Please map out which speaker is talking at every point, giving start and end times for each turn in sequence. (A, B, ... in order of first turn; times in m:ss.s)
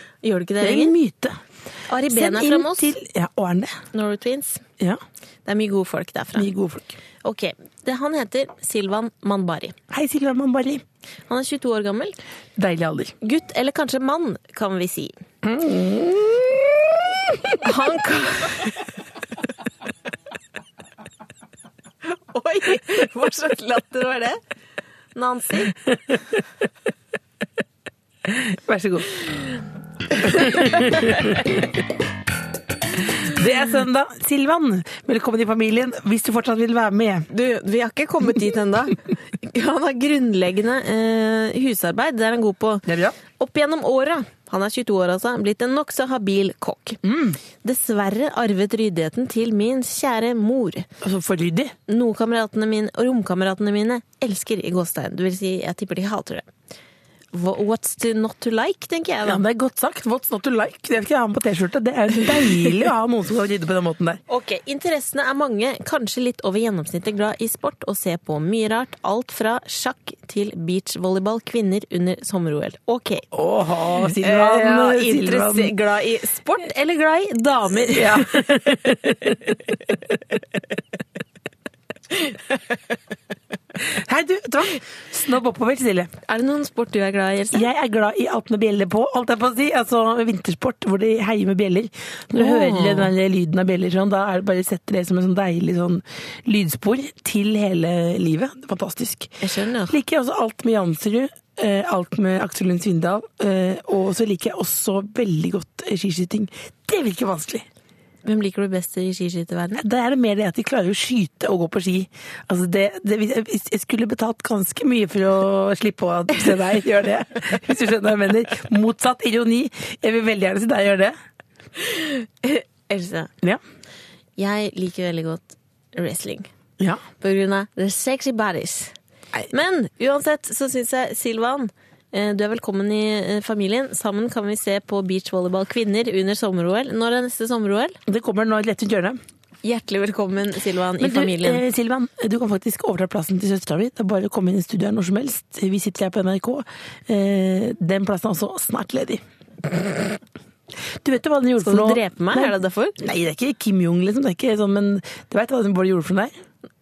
0:00.2-0:01.0 A
0:00.6-0:01.4 B
0:01.9-0:02.9 A
0:02.1-0:03.8 B
0:03.9-0:04.6 A
0:05.4-0:06.5 A
0:06.4-0:07.0 B
0:07.2-0:09.8 A
0:09.9-0:10.8 B
0:11.3-0:12.2 A
0:12.6-0:13.1 B
0:13.2-0:15.2 A
0:15.4-0:17.6 B
0:17.6-0:18.8 A
0:22.0-0:24.4 A
0:25.1-0:25.8 A
0:28.3-0:29.2 B
0:30.2-0:31.6 B
0:30.4-0:30.8 A
0:33.1-0:37.3 B
0:37.3-0:47.0 A
0:42.9-0:43.2 B
0:47.0-0:47.4 B
0:47.6-0:50.9 A
0:51.0-0:51.7 B
0:51.9-0:56.5 A
0:57.3-0:59.4 A
0:59.2-1:04.2 B
1:04.3-1:13.3 A
1:13.3-1:15.7 B
1:14.2-1:18.6 A
1:17.9-1:19.6 B
1:23.8-1:26.1 B
1:26.3-1:27.7 A
1:27.5-1:47.7 B
1:32.4-1:33.1 A
1:39.4-1:40.0 A
1:48.2-1:49.8 A
1:49.8-2:01.2 B
2:01.8-2:03.3 A
2:04.4-2:06.5 A
2:07.2-2:09.0 A
2:09.5-2:18.0 A
2:18.1-2:19.2 B
2:19.6-2:21.6 A
2:21.0-2:29.2 B
2:31.0-2:36.3 B
2:31.6-2:33.0 A